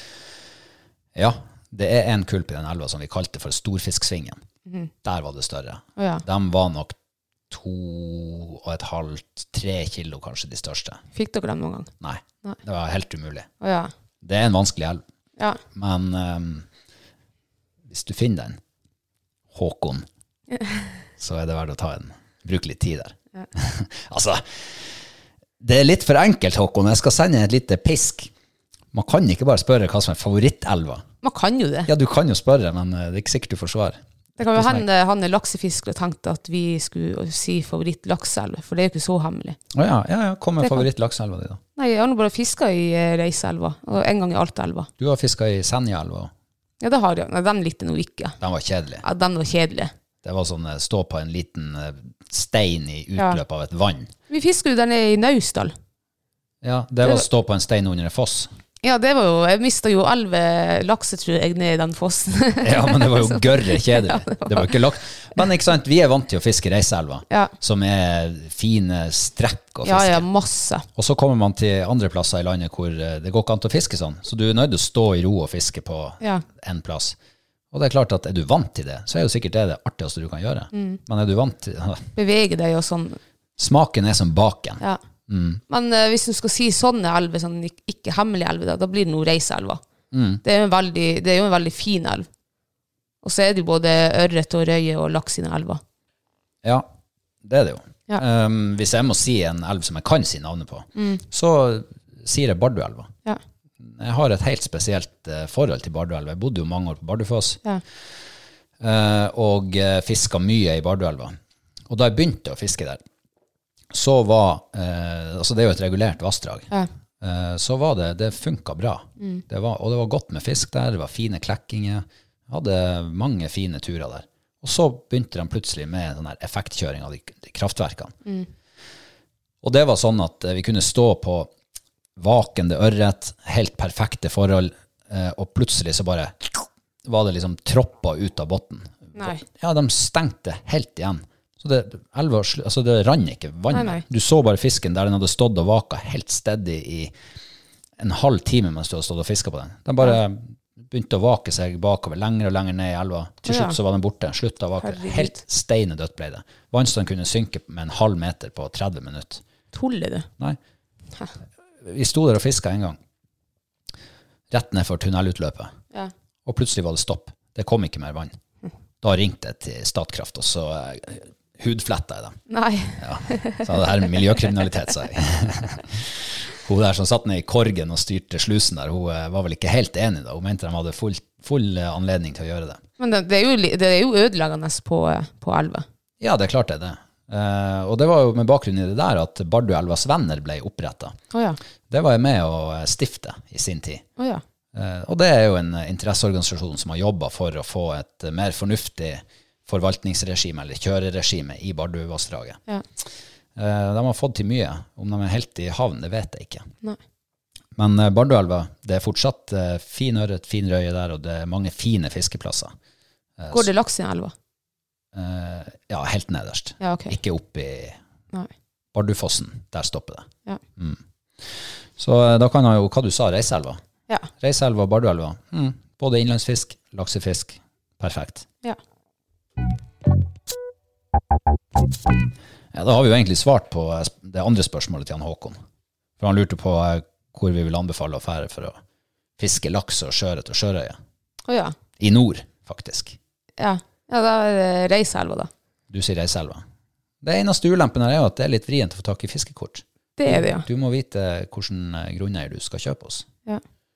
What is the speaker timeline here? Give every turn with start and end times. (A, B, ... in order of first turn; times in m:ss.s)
0:01.2-0:04.4 A
0:05.0-0:07.0 A
0:06.0-0:06.2 B
0:07.5-0:11.0 A
0:11.1-0:11.9 B
0:12.0-0:13.5 A
0:13.6-0:13.9 B
0:14.2-0:15.0 A
0:15.7-0:16.7 A
0:17.9-0:18.6 A
0:19.5-0:20.1 A
0:20.5-0:20.9 B
0:21.2-0:24.9 A
0:25.6-0:28.3 A
0:28.9-0:31.0 A
0:31.2-0:31.9 B
0:31.9-0:34.8 A
0:34.4-0:39.6 B
0:39.7-0:41.6 A
0:40.6-0:40.8 B
0:41.8-0:44.9 B
0:45.0-0:46.3 A
0:46.8-0:48.4 B
0:48.4-0:49.0 A
0:49.0-0:49.9 B
0:50.2-0:54.1 A
0:54.3-0:55.7 B
0:56.6-0:58.5 A
0:58.8-1:04.8 B
1:02.6-1:10.2 A
1:09.8-1:10.9 B
1:11.0-1:17.2 A
1:17.7-1:22.1 A
1:20.7-1:21.0 B
1:22.2-1:23.2 B
1:23.6-1:25.6 A
1:25.7-1:29.8 B
1:30.1-1:30.4 A
1:30.4-1:32.3 B
1:33.2-1:35.8 B
1:36.6-1:36.9 A
1:37.4-1:43.1 A
1:41.0-1:41.2 B
1:43.8-1:47.6 A
1:48.8-1:51.4 A
1:51.9-1:53.0 A
1:53.9-2:08.2 A
1:59.2-1:59.4 B
2:09.6-2:11.5 A
2:12.2-2:27.1 A
2:19.2-2:19.4 B
2:23.7-2:24.0 B
2:28.0-2:39.4 A
2:33.5-2:33.8 B
2:34.8-2:35.4 B
2:39.7-2:40.3 B
2:41.8-2:43.0 A
2:44.5-2:45.8 A
2:46.5-2:48.4 A
2:49.0-2:52.4 A
2:52.5-2:53.7 B
2:53.0-3:02.8 A
3:03.0-3:05.8 B
3:06.2-3:11.2 A
3:11.3-3:11.6 B
3:11.9-3:14.0 A
3:14.7-3:22.6 A
3:23.6-3:26.7 A
3:27.8-3:32.7 A
3:33.4-3:33.7 A
3:33.5-3:34.3 B
3:35.1-3:38.0 A
3:36.8-3:37.2 B
3:38.9-3:43.8 A
3:44.4-3:48.5 A
3:52.7-3:55.6 A
3:56.2-3:58.8 A
3:59.4-4:01.0 A
4:01.5-4:01.8 B
4:02.0-4:03.2 A
4:03.6-4:05.5 B
4:05.9-4:06.6 A
4:07.2-4:13.3 A
4:10.2-4:10.7 B